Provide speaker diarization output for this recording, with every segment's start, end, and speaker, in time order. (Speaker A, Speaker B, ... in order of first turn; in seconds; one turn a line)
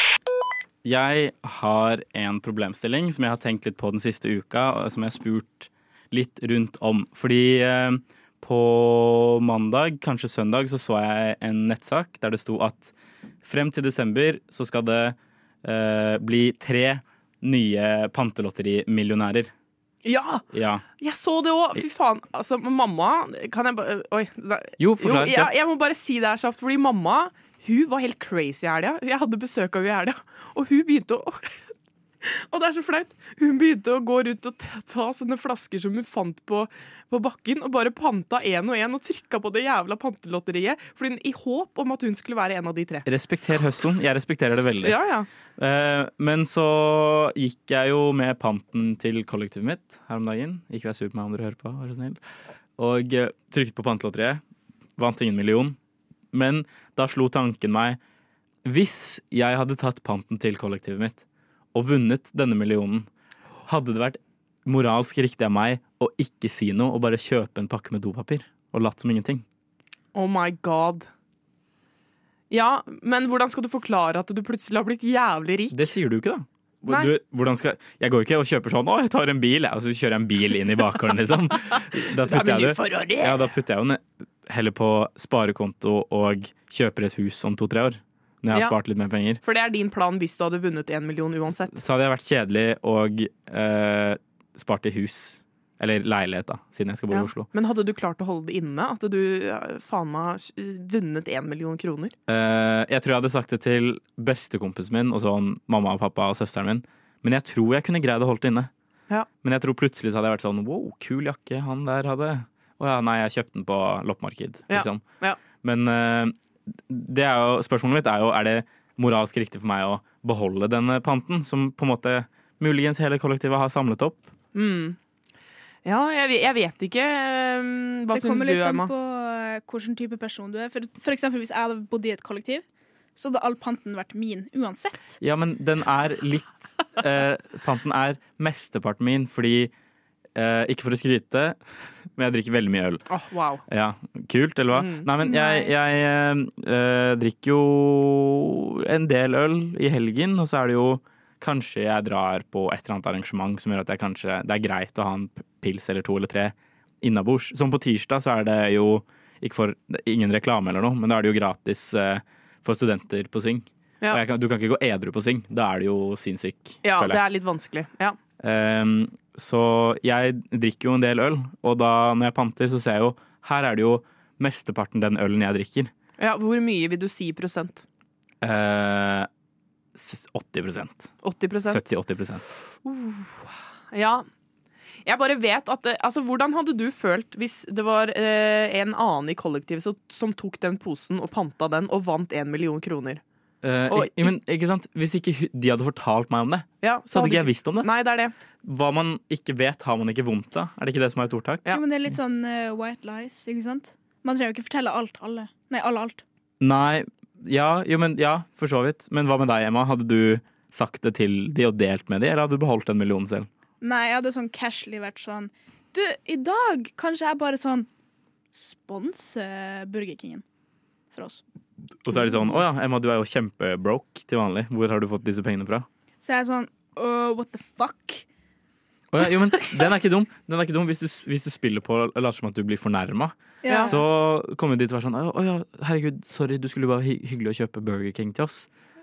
Speaker A: 0.8-19.5
Speaker B: 20.0-20.4
Speaker A: 20.5-20.8
Speaker B: 21.0-31.7
Speaker A: 24.8-25.5
Speaker B: 32.2-43.0
Speaker A: 43.0-45.0
Speaker B: 44.8-45.3
Speaker A: 45.6-52.2
Speaker A: 52.8-54.4
Speaker A: 55.0-55.8
Speaker A: 56.3-58.0
Speaker A: 58.6-63.1
Speaker A: 63.6-69.4
Speaker B: 70.1-71.1
Speaker B: 72.5-75.9
Speaker A: 75.7-89.4
Speaker B: 76.8-77.1
Speaker B: 82.1-83.5
Speaker B: 88.5-88.8
Speaker B: 89.4-91.8
Speaker A: 91.7-97.5
Speaker B: 97.1-102.1
Speaker A: 102.3-108.7
Speaker A: 109.4-115.0
Speaker B: 114.7-115.4
Speaker A: 115.6-124.3
Speaker B: 124.5-125.0
Speaker B: 125.8-128.9
Speaker C: 128.1-132.6
Speaker C: 133.2-135.2
Speaker A: 135.2-139.7
Speaker A: 140.3-141.6
Speaker A: 142.1-143.1
Speaker B: 143.1-143.6
Speaker A: 143.7-167.2
Speaker B: 144.7-145.1
Speaker C: 145.2-145.7
Speaker B: 166.8-168.2
Speaker A: 168.4-175.9
Speaker B: 176.2-177.8
Speaker A: 178.4-179.3
Speaker A: 179.9-181.1
Speaker B: 181.2-181.8
Speaker A: 181.7-182.6
Speaker B: 182.8-184.2
Speaker B: 185.1-193.2
Speaker A: 193.6-197.9
Speaker B: 193.9-194.3
Speaker B: 196.8-198.3
Speaker A: 198.6-201.8
Speaker C: 201.7-206.2
Speaker A: 206.6-213.5
Speaker C: 213.8-217.9
Speaker C: 218.5-220.4
Speaker C: 221.1-221.4
Speaker A: 222.0-225.9
Speaker C: 226.2-228.2
Speaker A: 229.1-238.7
Speaker C: 233.6-234.0
Speaker B: 233.7-233.9